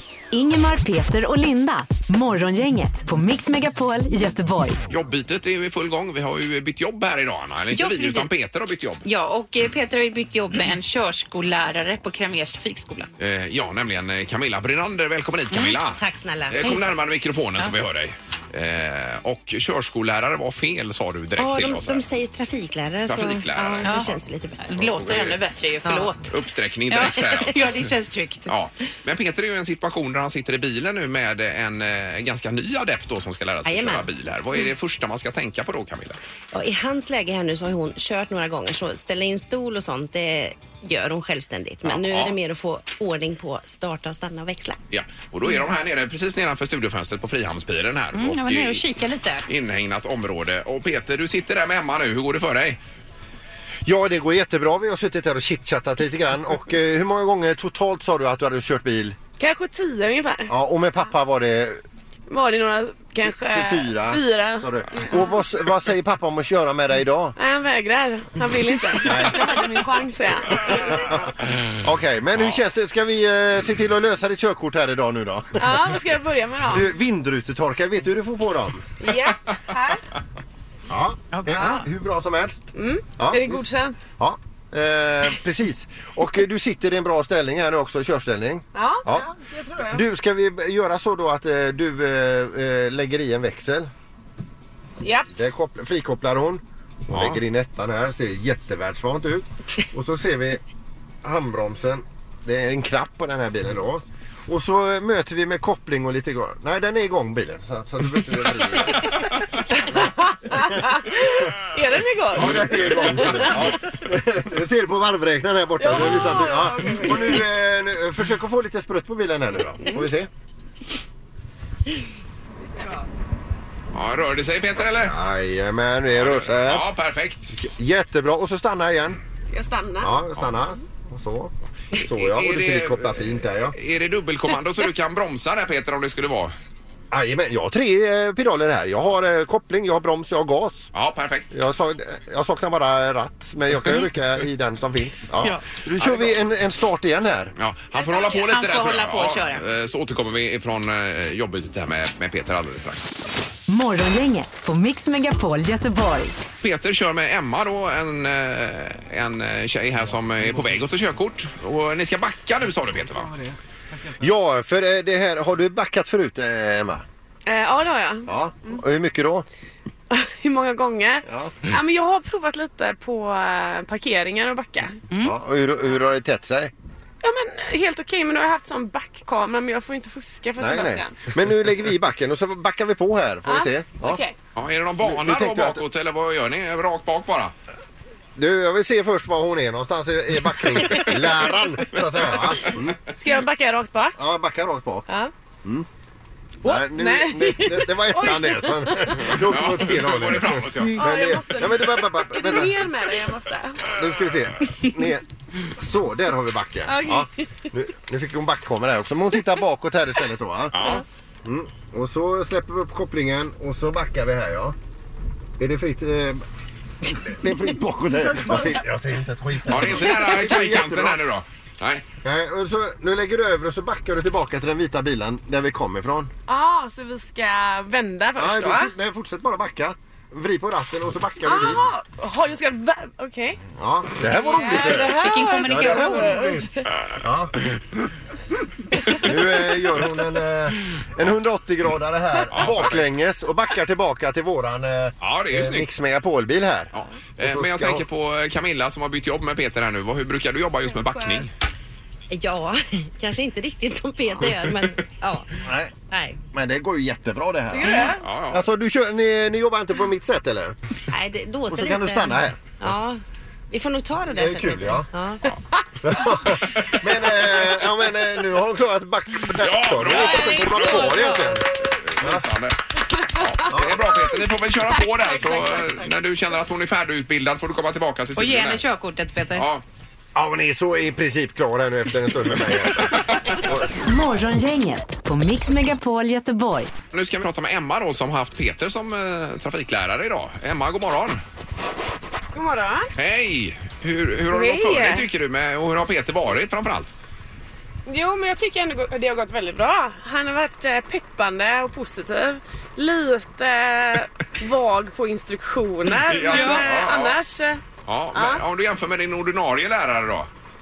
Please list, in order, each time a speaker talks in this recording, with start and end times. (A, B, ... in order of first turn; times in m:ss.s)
0:00.3-0:04.8 A
0:04.9-0:09.0 B
0:07.7-0:08.3 C
0:09.0-0:13.1 C
0:13.2-0:22.2 B
0:15.7-0:16.8 D
0:21.4-0:24.8 D
0:23.0-0:24.1 B
0:23.8-0:26.3 C
0:24.8-0:25.4 B
0:25.8-0:26.1 D
0:26.2-0:27.9 B
0:26.9-0:28.5 C
0:28.5-0:36.2 B
0:33.6-0:34.1 D
0:36.5-0:44.8 D
0:41.8-0:42.4 B
0:44.9-0:48.8 B
0:48.1-0:49.5 C
0:49.4-0:52.8 B
0:53.8-0:59.2 E
0:59.4-1:00.5 F
1:00.5-1:01.8 E
1:02.3-1:05.1 F
1:03.4-1:07.4 E
1:07.4-1:10.8 F
1:09.0-1:09.7 E
1:10.7-1:16.0 E
1:12.4-1:12.6 B
1:15.6-1:16.9 F
1:16.6-1:18.8 E
1:19.0-1:20.0 F
1:20.9-1:23.6 E
1:21.3-1:21.9 C
1:22.7-1:24.0 F
1:24.2-1:29.3 E
1:28.7-1:30.0 F
1:29.9-1:33.9 E
1:35.0-1:35.3 F
1:35.3-1:40.6 E
1:37.1-1:37.4 B
1:41.2-1:49.3 E
1:50.2-1:53.4 F
1:52.3-2:00.3 E
1:52.4-1:53.9 B
1:55.8-1:57.4 F
2:03.9-2:05.2 B
2:05.0-2:06.9 E
2:06.1-2:07.6 B
2:07.5-2:09.2 E
2:09.5-2:10.2 F
2:10.0-2:13.7 E
2:12.2-2:16.6 B
2:17.1-2:20.9 E
2:20.9-2:21.5 B
2:21.5-2:27.5 E
2:25.7-2:26.4 B
2:27.6-2:33.0 B
2:27.9-2:29.6 C
2:33.7-2:36.4 A
2:36.6-2:43.3 B
2:44.2-2:47.0 E
2:47.4-2:48.8 F
2:48.2-2:49.4 E
2:50.1-2:55.0 F
2:51.2-2:51.6 E
2:55.1-2:55.3 C
2:55.2-2:56.7 E
2:57.2-3:01.2 F
3:00.6-3:04.2 E
3:03.4-3:04.3 F
3:04.6-3:07.5 B
3:05.0-3:05.8 E
3:08.4-3:13.0 E
3:10.9-3:11.2 F
3:13.2-3:14.2 F
3:14.2-3:15.1 E
3:15.1-3:15.3 F
3:16.6-3:19.3 F
3:16.6-3:22.9 E
3:19.2-3:21.1 B
3:20.9-3:23.9 F
3:23.9-3:30.9 E
3:26.8-3:27.4 F
3:30.7-3:31.0 B
3:31.4-3:34.8 E
3:35.6-3:36.4 E
3:37.0-3:41.2 E
3:38.3-3:38.8 F
3:39.7-3:42.0 B
3:42.2-3:46.3 E
3:46.5-3:48.9 F
3:48.4-3:51.9 E
3:51.4-3:53.6 F
3:53.8-3:57.5 E
3:54.1-3:56.9 F
3:54.6-3:56.4 C
3:59.1-4:08.0 E
3:59.2-3:59.5 F
4:02.5-4:03.0 B
4:05.2-4:05.9 B
4:06.9-4:11.5 B
4:11.1-4:11.5 F
4:12.3-4:16.4 D
4:14.4-4:14.7 B
4:15.6-4:15.9 E
4:16.5-4:20.8 E
4:17.7-4:18.2 F
4:18.2-4:18.6 B
4:21.1-4:25.5 D
4:21.7-4:22.9 E
4:24.3-4:25.1 E
4:26.0-4:31.7 E
4:26.8-4:27.8 B
4:29.6-4:32.8 B
4:30.0-4:31.5 C
4:33.3-4:38.8 B
4:33.7-4:34.0 E
4:38.4-4:39.6 C
4:39.5-4:39.8 B
4:40.3-4:44.1 E
4:42.8-4:43.7 B
4:44.0-4:46.9 A
4:47.1-4:51.4 B
4:52.5-4:53.1 F
4:53.2-4:57.1 B
4:54.5-4:55.3 F
4:58.0-5:07.8 F
5:06.1-5:07.4 B
5:08.0-5:10.5 B
5:08.3-5:08.6 F